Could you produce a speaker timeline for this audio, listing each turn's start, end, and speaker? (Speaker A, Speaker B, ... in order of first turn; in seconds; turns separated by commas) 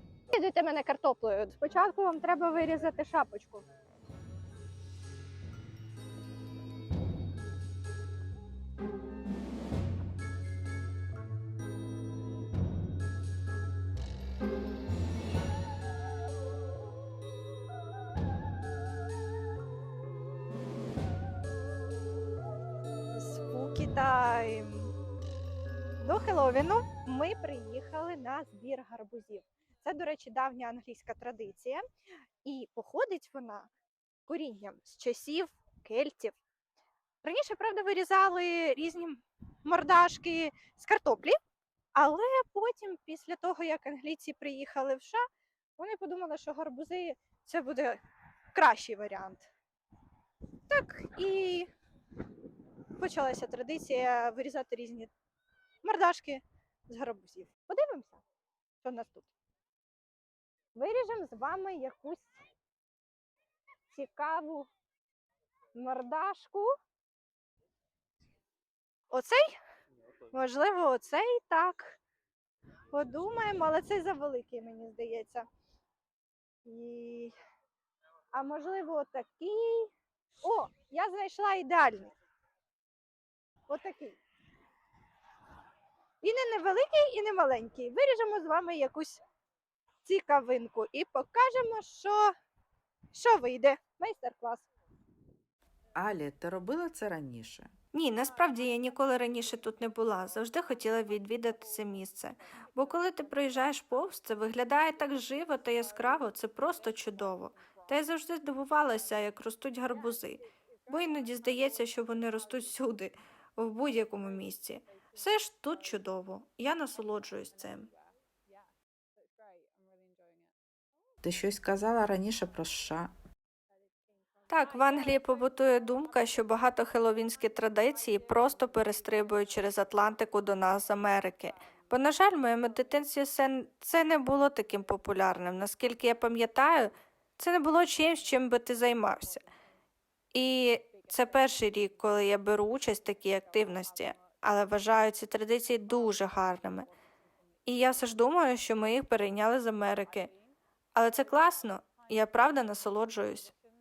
Speaker A: 0.3-3.6, Speaker A: 23.1-24.9, Speaker A: 26.0-31.8, Speaker B: 26.1-27.0, Speaker A: 32.4-33.7, Speaker A: 34.3-35.1, Speaker B: 34.9-35.7, Speaker A: 35.6-36.3, Speaker A: 37.2-41.4, Speaker A: 41.9-45.2, Speaker A: 45.8-48.0, Speaker A: 48.5-49.5, Speaker A: 50.7-51.7, Speaker A: 53.0-55.1, Speaker A: 55.8-58.2, Speaker A: 58.8-59.3, Speaker A: 60.7-62.4, Speaker A: 63.9-64.7, Speaker A: 65.7-66.7, Speaker A: 69.1-69.5, Speaker A: 70.3-72.0, Speaker A: 72.9-75.5, Speaker A: 76.6-77.3, Speaker A: 78.3-79.9, Speaker A: 80.4-82.1, Speaker A: 83.7-84.2, Speaker A: 86.2-89.2, Speaker A: 90.0-92.3, Speaker A: 93.1-94.7, Speaker C: 96.0-97.7, Speaker B: 97.9-117.9, Speaker C: 121.2-123.1, Speaker B: 124.5-139.5, Speaker B: 140.3-146.9, Speaker B: 147.7-150.3, Speaker B: 150.9-153.5